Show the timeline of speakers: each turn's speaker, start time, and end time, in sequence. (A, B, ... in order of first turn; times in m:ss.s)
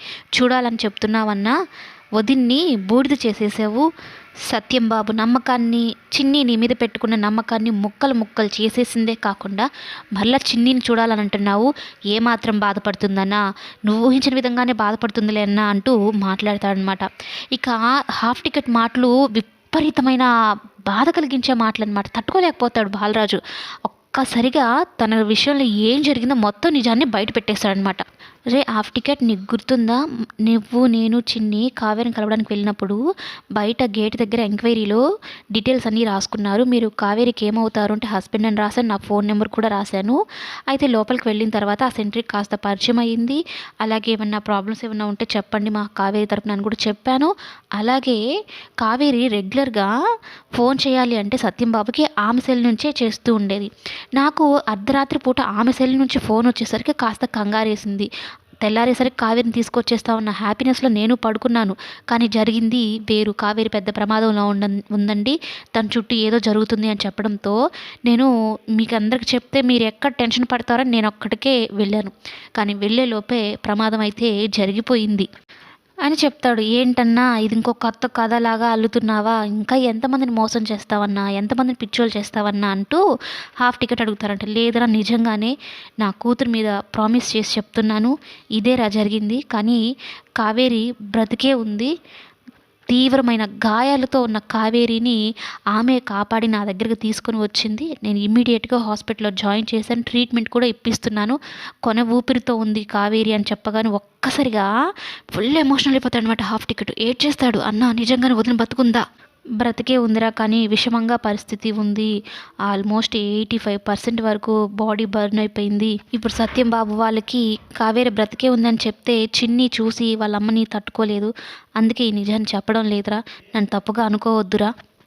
0:00.4-0:01.6 A
0:02.2-0:03.9 A
0:04.5-0:20.3 A
0:20.9-0:33.0 A
0:33.6-0:35.0 A
0:35.6-0:48.2 A
0:48.8-0:49.9 A
0:50.6-0:58.1 A
0:58.6-1:15.3 A
1:16.0-1:23.0 A
1:23.6-1:29.8 A
1:30.4-1:31.9 A
1:32.9-1:35.2 A
1:35.7-1:44.7 A
1:45.4-1:49.0 A
1:49.6-1:52.1 A
1:52.7-2:04.7 A